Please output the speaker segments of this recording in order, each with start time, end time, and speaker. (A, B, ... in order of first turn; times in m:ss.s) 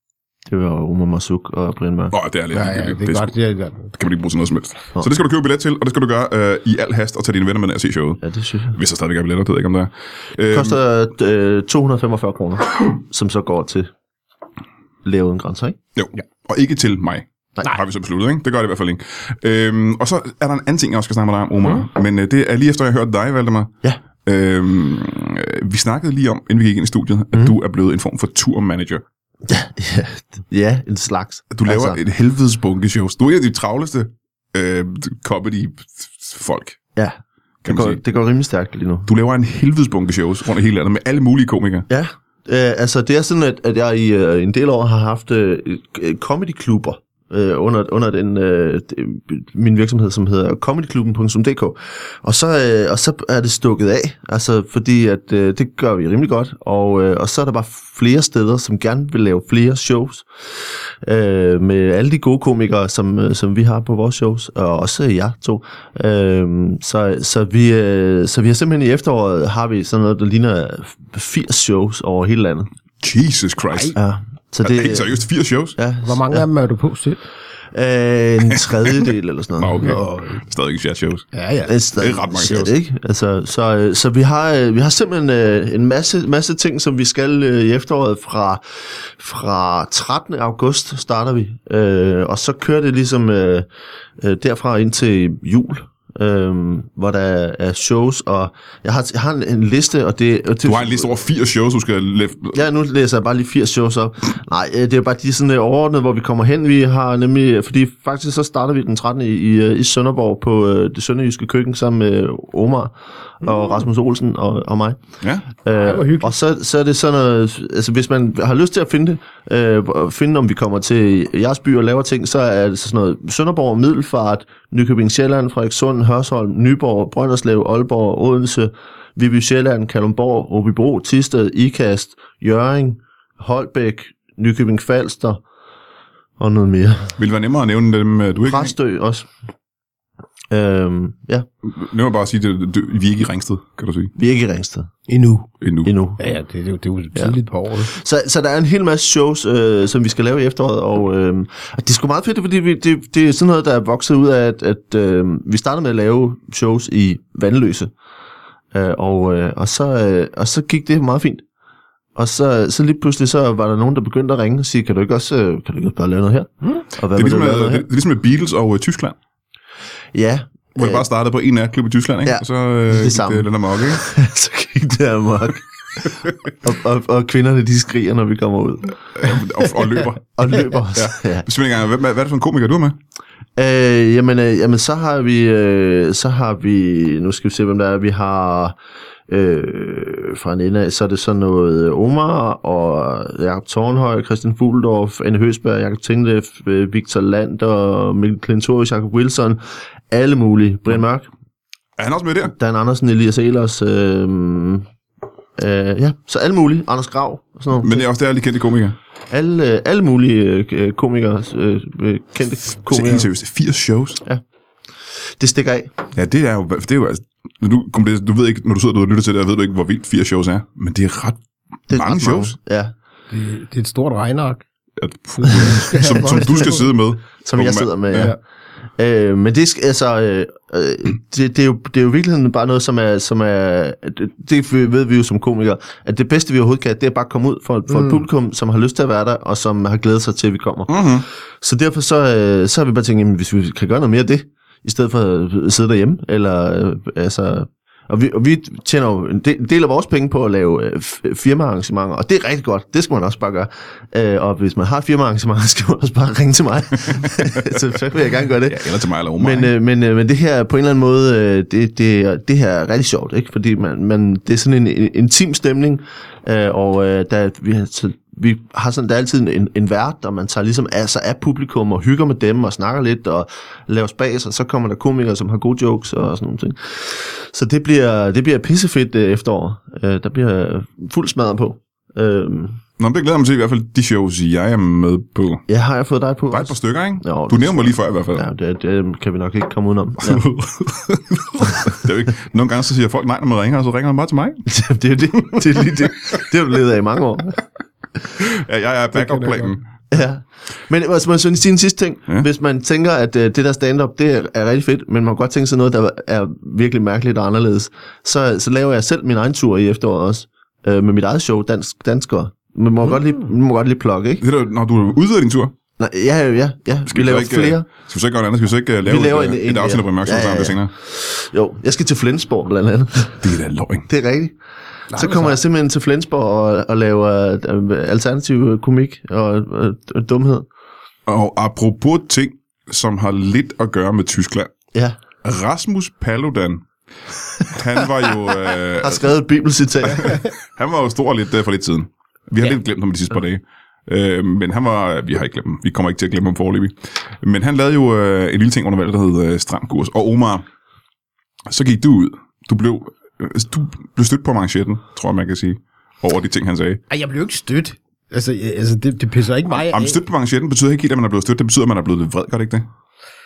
0:00.5-0:02.1 A
0:02.1-0:03.3 B
0:02.5-0:03.9 C
0:03.9-0:10.8 B
0:08.2-0:08.8 A
0:10.5-0:13.9 A
0:15.0-0:15.8 A
0:16.0-0:23.7 B
0:24.2-0:29.0 B
0:29.4-0:32.0 A
0:31.5-0:36.8 B
0:37.0-0:39.1 A
0:37.6-0:38.0 B
0:39.0-0:41.9 B
0:41.9-1:00.3 A
1:01.0-1:12.7 A
1:13.0-1:14.0 B
1:14.0-1:15.1 A
1:14.6-1:15.8 B
1:15.8-1:16.4 A
1:16.0-1:17.2 C
1:17.7-1:19.9 A
1:19.6-1:21.2 B
1:19.8-1:20.4 C
1:21.3-1:21.7 C
1:21.6-1:33.7 A
1:22.0-1:22.7 B
1:34.2-1:41.1 A
1:40.6-1:42.6 B
1:42.5-1:55.0 A
1:55.6-2:15.4 A
1:55.8-1:56.3 C
2:16.4-2:17.1 A
2:17.2-2:18.7 B
2:18.4-2:19.3 A
2:20.5-2:21.4 A
2:21.6-2:24.1 B
2:24.2-2:24.9 A
2:25.1-2:25.5 C
2:25.6-2:25.9 B
2:25.8-2:26.2 A
2:26.2-2:27.9 C
2:27.8-2:37.9 A
2:38.7-2:41.4 A
2:42.2-2:47.8 A
2:47.1-2:49.2 B
2:50.1-2:51.0 A
2:50.8-2:54.0 B
2:52.2-2:55.6 A
2:56.6-2:59.0 A
2:59.2-3:03.0 B
3:00.4-3:01.4 A
3:03.6-3:08.8 A
3:09.3-3:21.3 A
3:22.0-3:22.5 B
3:22.5-3:24.9 A
3:25.6-3:28.0 A
3:27.7-3:29.0 B
3:29.3-3:33.3 A
3:32.8-3:34.2 B
3:35.4-3:35.9 A
3:36.1-3:41.4 B
3:41.9-3:42.9 A
3:41.9-3:42.5 B
3:43.3-3:44.6 C
3:45.0-3:48.3 B
3:45.4-3:46.8 C
3:47.4-3:48.3 A
3:49.0-4:18.8 A
3:57.9-3:58.2 C
4:00.9-4:01.2 B
4:17.3-4:17.7 B
4:18.6-4:19.7 B
4:19.4-4:42.8 A
4:43.0-4:45.6 B
4:45.7-4:50.4 A
4:46.5-4:48.4 B
4:50.2-4:54.6 B
4:54.6-4:57.6 A
4:58.4-4:59.8 B
4:59.1-4:59.7 C
5:00.1-5:14.4 A
5:14.4-5:15.7 B
5:16.0-5:17.9 A
5:17.1-5:20.9 B
5:19.0-5:23.4 A
5:23.4-5:24.1 B
5:24.1-5:24.6 A
5:25.1-5:30.7 A
5:25.1-5:25.6 C
5:31.3-5:34.7 B
5:35.4-5:36.9 B
5:37.6-5:39.3 B
5:39.0-5:40.4 A
5:40.1-5:50.6 B
5:51.7-5:57.0 B
5:57.1-6:00.2 C
5:59.7-6:02.8 B